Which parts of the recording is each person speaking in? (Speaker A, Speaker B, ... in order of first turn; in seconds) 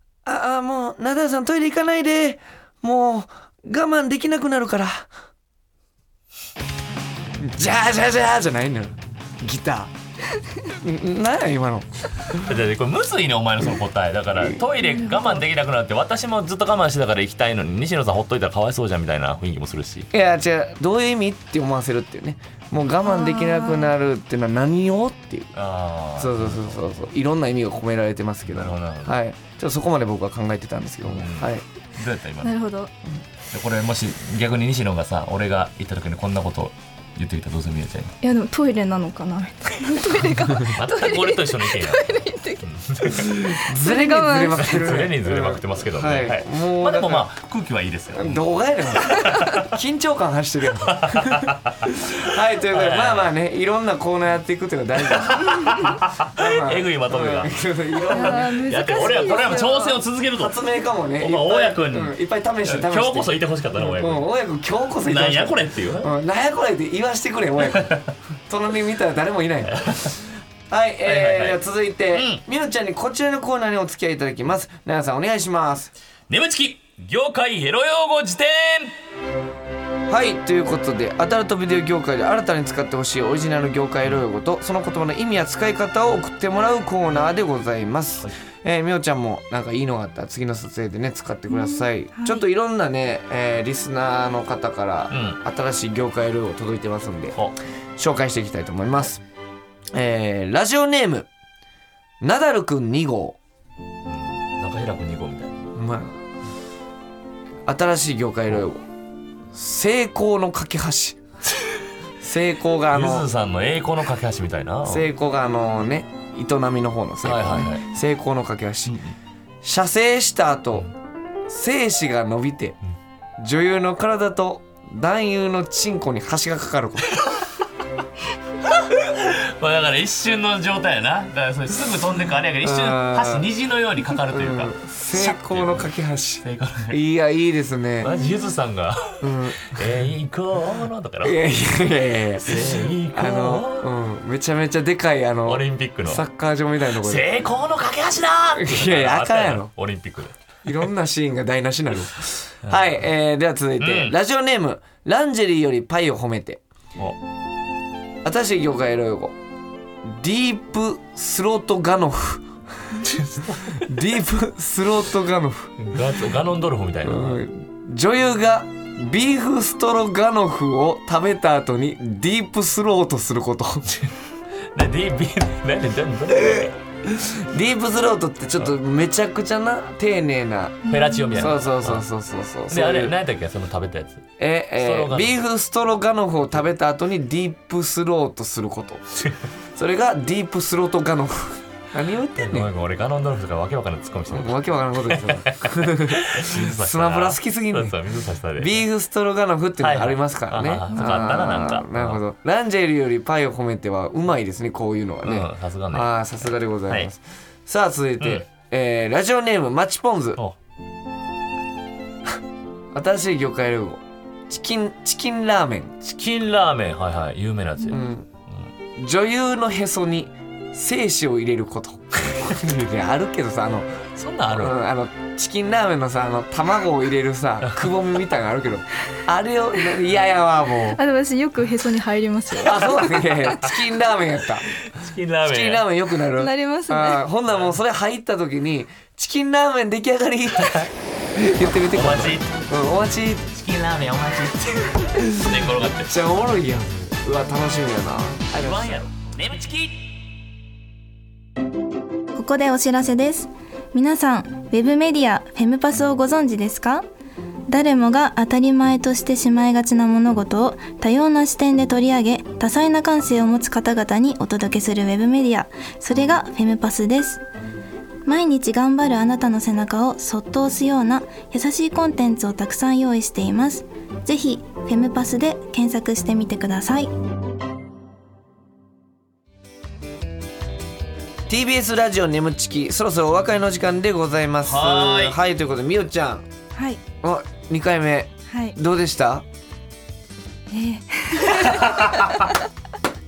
Speaker A: 0.2-5.1, 7.4-9.9, 10.8-12.4, 20.1-25.5, 26.2-31.6, 43.1-47.3, 48.1-59.4, 60.3-70.1, 70.7-75.9, 80.1-97.4, 98.0-99.2, 99.9-101.3, 102.2-103.4, 105.8-106.2, 107.7-108.8, 109.5-111.2, 112.2-113.3, 114.8-119.0, 119.6-120.9, 121.5-122.8, 123.4-127.2, 132.6-133.5, 134.3-138.1, 139.2-139.8, 141.2-147.3, 148.6-149.7, 150.6-156.6, 158.2-159.3, 160.0-163.1, 163.8-165.7, 167.0-174.1, 176.3-183.1, 184.4-189.0, 189.7-192.7, 194.3-197.9, 198.6-210.4, 212.9-215.9, 217.9-218.3, 219.0-224.0, 224.5-231.0, 232.5-234.7, 235.4-243.5, 245.2-249.0, 281.5-286.4, 287.2-289.4
Speaker B: 12.3-20.1, 25.6-26.8, 28.5-29.1, 31.0-32.6, 33.5-38.1, 40.6-43.5, 44.5-48.4, 49.0-49.8, 50.8-53.3, 55.1-60.6, 61.2-64.2, 65.0-66.1, 67.7-68.1, 69.7-70.2, 71.0-71.6, 72.1-72.4, 76.3-78.9, 95.1-95.4, 104.1-105.7, 112.9-115.1, 117.2-117.8, 118.9-119.1, 127.1-127.4, 128.7-135.9, 136.4-137.0, 138.0-141.4, 142.4-143.9, 145.4-146.2, 146.9-150.3, 153.8-154.1, 163.0-163.9, 165.8-167.4, 174.7-176.8, 180.8-182.0, 182.7-184.3, 184.8-185.3, 192.4-198.8, 199.8-202.2, 205.2-207.1, 216.0-218.7, 224.2-224.7, 233.5-233.8, 234.8-235.9, 240.6-240.9, 241.9-242.6, 243.5-246.1, 248.5-250.1, 284.6-285.4, 291.6-292.4
Speaker C: 14.8-15.2, 23.0-23.9, 32.4-32.9, 38.2-42.6, 43.7-44.7, 49.0-49.5, 58.1-60.0, 91.5-92.4, 180.8-181.5, 200.9-201.5, 230.9-233.6, 236.3-237.2, 252.3-257.0, 257.7-267.4, 268.2-277.1, 286.7-287.0, 288.5-288.8, 290.7-292.6